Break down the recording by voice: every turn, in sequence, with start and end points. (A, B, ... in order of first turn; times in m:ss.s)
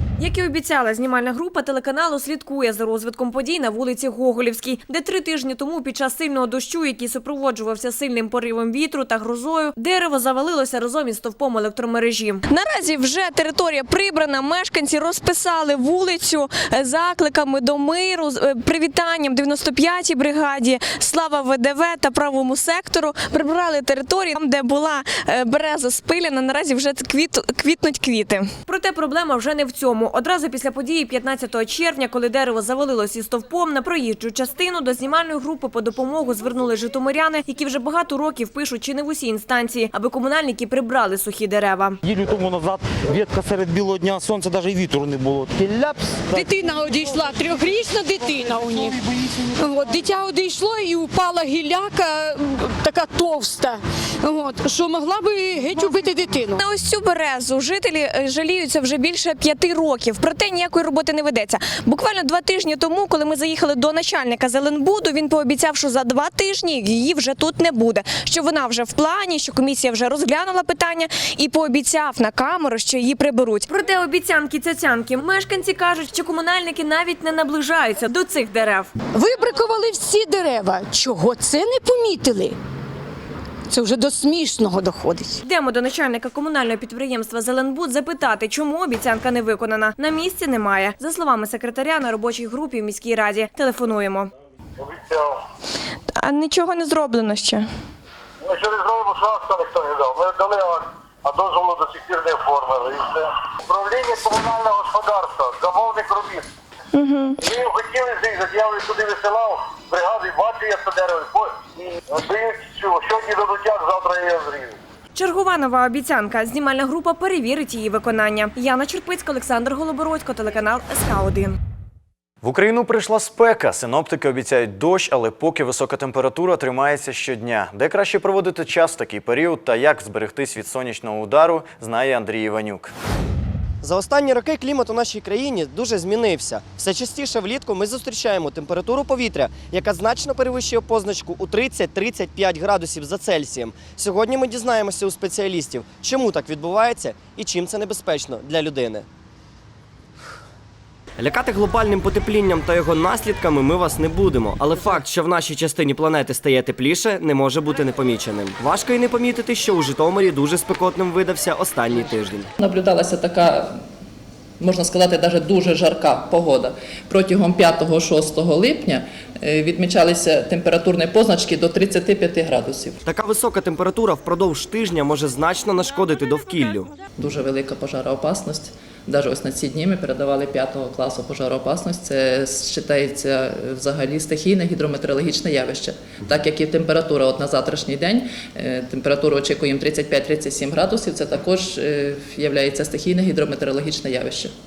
0:00.2-0:42.0 A
0:42.1-0:46.5 B
0:46.3-0:48.9 C
0:49.6-0:56.6 C
0:56.6-1:18.9 A
1:19.1-1:22.6 C
1:23.7-1:25.4 C
1:25.4-1:34.3 A
1:34.8-1:35.4 D
1:36.2-1:37.7 A
1:38.4-1:46.5 D
1:47.4-1:54.7 D
1:55.2-2:01.6 A
2:02.4-2:12.9 E
2:13.8-2:29.1 F
2:31.2-2:42.5 F
2:42.6-2:43.8 G
2:44.6-2:53.0 G
2:53.1-2:56.9 F
2:57.2-3:14.5 G